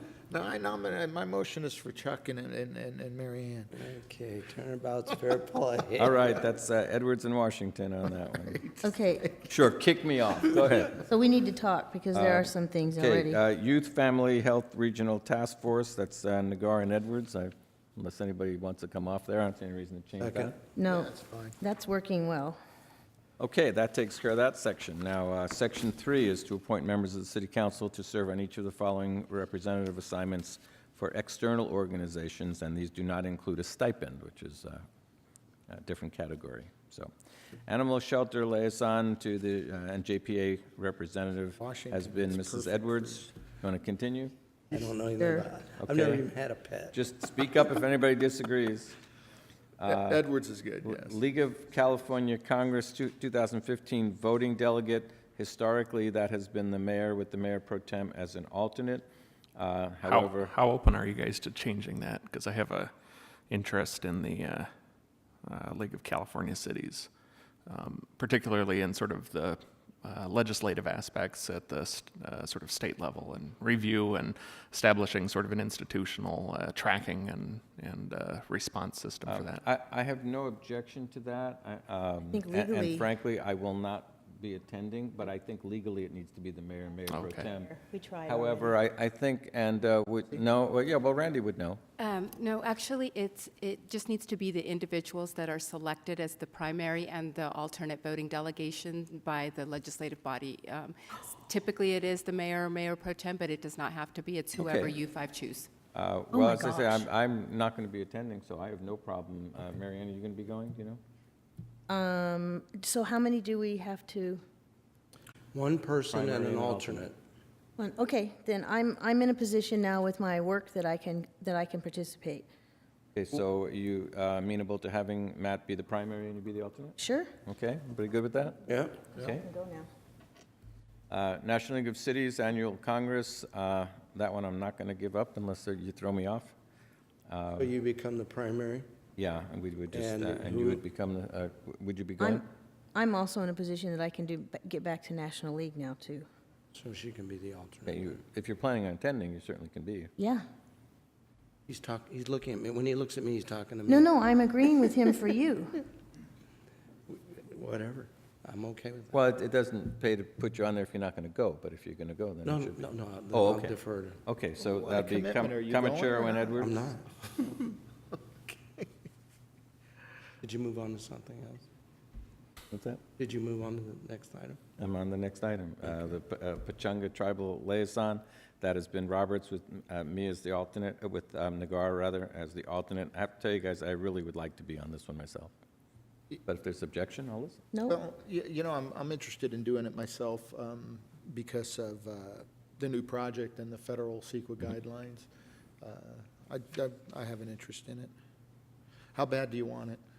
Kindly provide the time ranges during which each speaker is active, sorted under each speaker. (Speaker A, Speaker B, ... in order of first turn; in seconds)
Speaker A: 0.3-3.7, 20.9-21.5, 41.6-43.3, 49.9-51.2, 164.6-166.8, 168.5-168.8, 187.9-195.3, 195.8-198.1, 199.1-200.0
Speaker B: 3.7-6.2, 20.2-20.6, 44.7-47.0, 115.5-117.1, 128.7-129.1, 137.6-138.9, 139.9-140.8, 146.7-148.1, 151.7-154.1, 157.1-159.1, 162.4-164.2, 166.6-167.8, 170.4-171.7, 173.2-174.6
Speaker C: 6.0-8.6, 9.4-11.0, 12.1-20.6, 23.4-34.8, 35.7-37.1, 37.7-44.3, 45.8-46.2, 46.9-49.0, 49.8-50.2, 50.8-60.5, 79.2-91.8, 104.5-105.0, 105.9-111.0, 116.1-117.1, 123.2-129.5, 131.1-136.6, 137.3-137.7, 139.2-142.4, 147.8-150.1, 159.1-163.7, 164.2-166.8, 172.7-173.0, 174.8-185.5, 186.4-187.6
Speaker D: 8.8-9.3, 10.9-13.4, 20.8-22.6, 45.2-45.5, 82.3-83.1, 87.8-88.7, 106.3-107.0, 111.9-114.4, 117.8-122.5, 127.0-127.3, 129.2-129.9, 142.2-146.2, 150.2-150.4, 153.9-155.8, 187.7-188.0
Speaker E: 60.0-62.9, 63.5-64.7, 65.4-67.1, 67.7-79.6, 87.1-87.5
Speaker F: 92.0-105.7